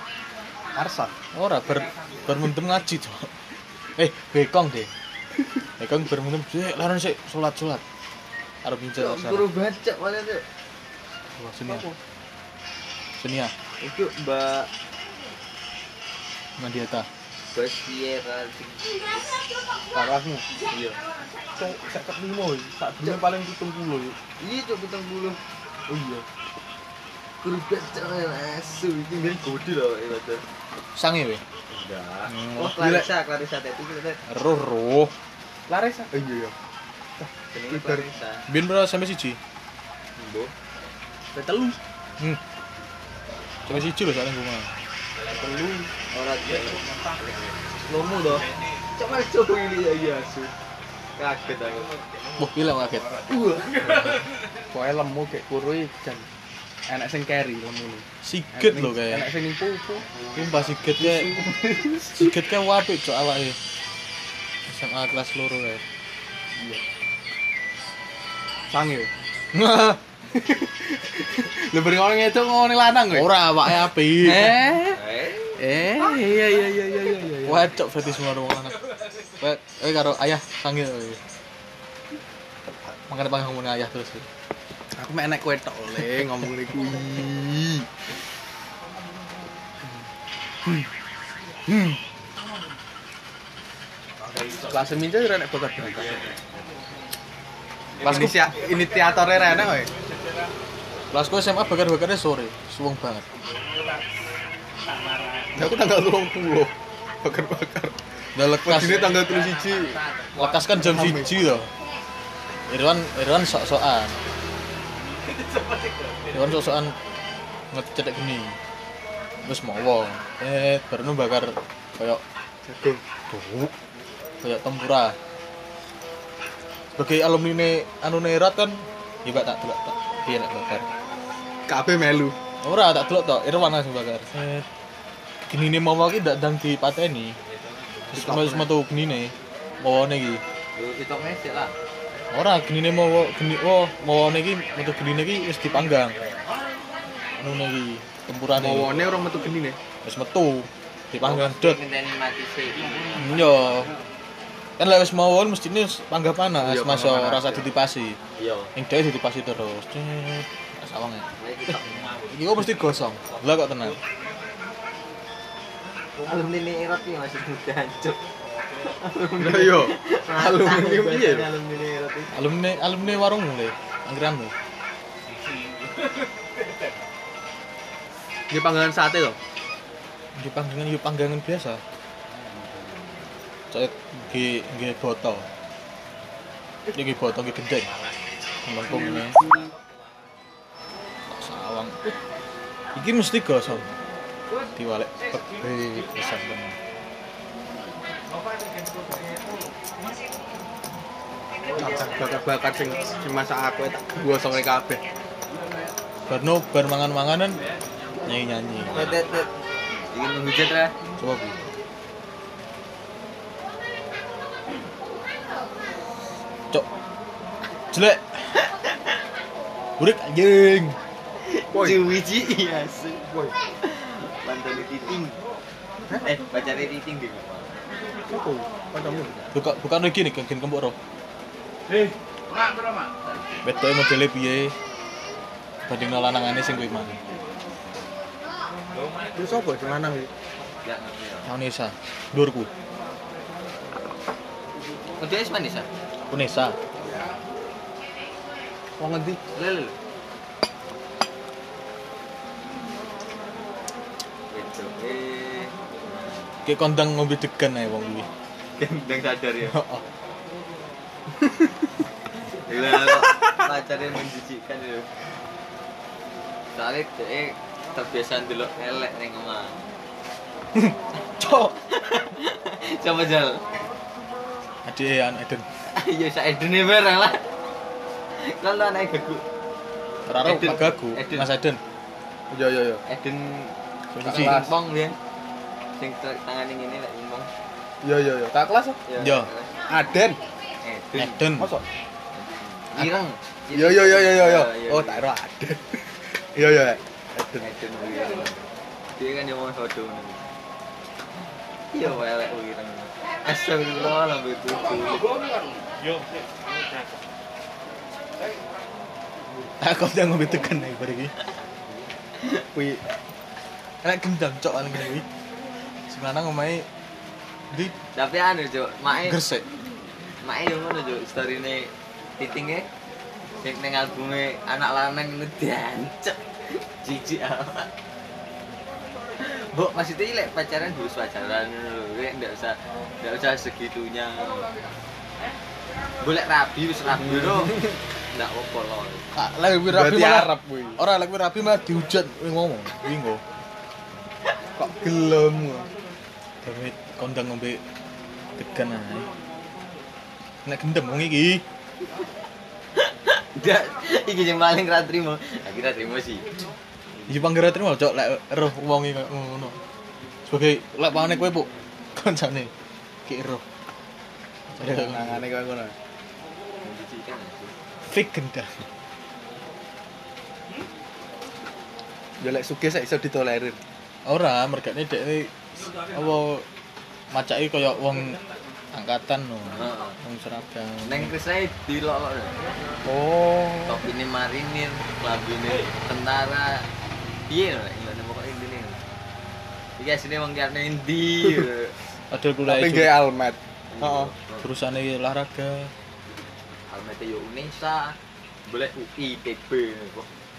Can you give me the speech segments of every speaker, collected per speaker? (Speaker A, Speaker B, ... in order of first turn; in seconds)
Speaker A: 0.7-1.1, 11.7-12.0, 19.9-20.5, 21.6-24.2, 25.9-26.2, 35.7-36.5, 37.2-38.1, 41.3-41.8, 45.3-45.9, 53.3-53.6, 54.7-56.3, 56.9-60.1, 61.1-62.3, 66.6-66.8, 68.7-69.1, 70.3-73.3, 74.2-75.0, 75.6-77.8, 85.0-87.9, 94.7-96.3, 98.0-99.9, 105.5-108.0, 108.6-111.5, 122.7-123.0, 131.7-132.4, 138.1-138.7, 148.5-149.8, 156.6-157.7, 169.4-171.5, 178.5-179.4, 201.8-205.0, 221.7-222.0, 223.3-223.5, 228.3-229.3, 239.3-240.3, 249.0-249.4, 282.5-283.1, 284.2-284.7, 288.0-289.0, 289.9-290.4, 291.6-291.9, 293.7-297.7, 312.4-313.0, 339.9-341.0, 344.8-345.9, 364.8-365.9, 372.4-373.8, 383.1-384.0, 392.7-394.3
Speaker B: 1.3-3.3, 4.0-4.9, 5.8-7.8, 8.6-9.5, 11.4-11.8, 13.2-13.5, 16.6-17.1, 30.9-31.4, 32.3-33.0, 34.3-35.1, 38.5-39.4, 43.7-44.7, 52.4-53.1, 58.2-59.3, 60.4-61.4, 62.1-63.6, 64.7-65.8, 69.5-70.0, 73.1-74.6, 75.7-76.2, 77.4-78.8, 79.4-81.2, 83.1-84.3, 91.7-92.0, 98.0-98.5, 101.1-103.2, 108.3-109.2, 110.4-111.7, 112.7-114.2, 116.3-117.0, 117.7-118.6, 119.4-122.2, 123.3-123.7, 124.4-125.2, 127.0-130.9, 132.6-134.7, 135.5-137.4, 138.1-140.4, 142.3-146.2, 147.4-149.0, 150.0-151.8, 153.2-153.9, 154.8-158.2, 158.8-161.3, 162.3-164.0, 172.3-174.5, 180.3-181.8, 183.7-185.5, 186.9-187.9, 188.7-189.4, 191.3-192.0, 192.9-193.9, 194.8-196.8, 206.3-207.6, 208.2-209.2, 211.2-211.7, 217.9-218.6, 220.0-221.0, 229.5-231.0, 233.6-234.8, 235.9-237.2, 241.4-242.7, 246.3-246.8, 256.6-258.3, 259.7-260.0, 274.9-275.7, 280.3-281.8, 284.1-284.6, 289.2-289.5, 291.2-291.8, 309.8-311.3, 314.0-315.3, 316.1-316.9, 319.3-319.6, 339.4-343.4, 346.6-347.8, 348.6-349.3, 350.6-351.6, 357.3-359.8, 360.5-362.7, 363.3-363.6, 364.7-365.5, 368.1-368.9, 374.2-376.7, 377.3-378.4, 378.9-381.3, 392.3-393.1, 394.6-395.9
Speaker C: 9.0-10.4, 13.8-14.7, 17.5-19.3, 20.7-21.0, 24.4-25.4, 27.4-30.4, 31.7-34.2, 37.5-38.5, 40.2-40.5, 46.1-46.8, 47.9-50.5, 51.2-51.9, 74.9-75.6, 95.9-96.3, 140.8-141.7, 151.2-153.4, 158.4-158.7, 161.4-162.2, 166.2-168.2, 168.8-172.4, 182.4-183.2, 208.9-209.5, 210.1-210.9, 218.7-219.1, 221.4-225.4, 226.0-227.8, 229.0-229.5, 240.8-241.5, 245.2-245.9, 249.6-249.9, 254.5-256.5, 258.8-259.8, 262.6-265.1, 266.7-269.8, 271.5-273.6, 275.9-277.5, 278.3-279.4, 280.4-281.5, 283.1-285.2, 286.0-287.5, 289.1-289.8, 290.8-291.5, 292.3-295.2, 297.6-298.6, 299.1-300.4, 301.9-305.2, 318.1-319.4, 320.4-322.9, 323.6-327.9, 329.4-334.7, 336.2-339.2, 352.9-356.7, 366.8-367.8, 379.7-380.1, 381.0-382.6, 383.9-386.9, 387.5-389.0, 390.0-392.0, 393.9-394.7, 396.9-400.3
Speaker D: 45.1-45.9, 46.4-48.9, 51.5-54.7, 60.1-60.8, 78.7-79.3, 94.2-95.0, 96.1-96.6, 98.0-100.5, 103.5-104.1, 104.8-105.7, 108.8-110.8, 115.0-116.8, 152.9-154.0, 161.8-164.5, 168.4-169.0, 175.2-177.0, 187.9-188.2, 189.3-190.1, 194.5-196.4, 198.3-199.8, 205.5-205.9, 207.6-208.3, 208.8-209.1, 232.0-233.1, 238.9-239.9, 305.9-307.2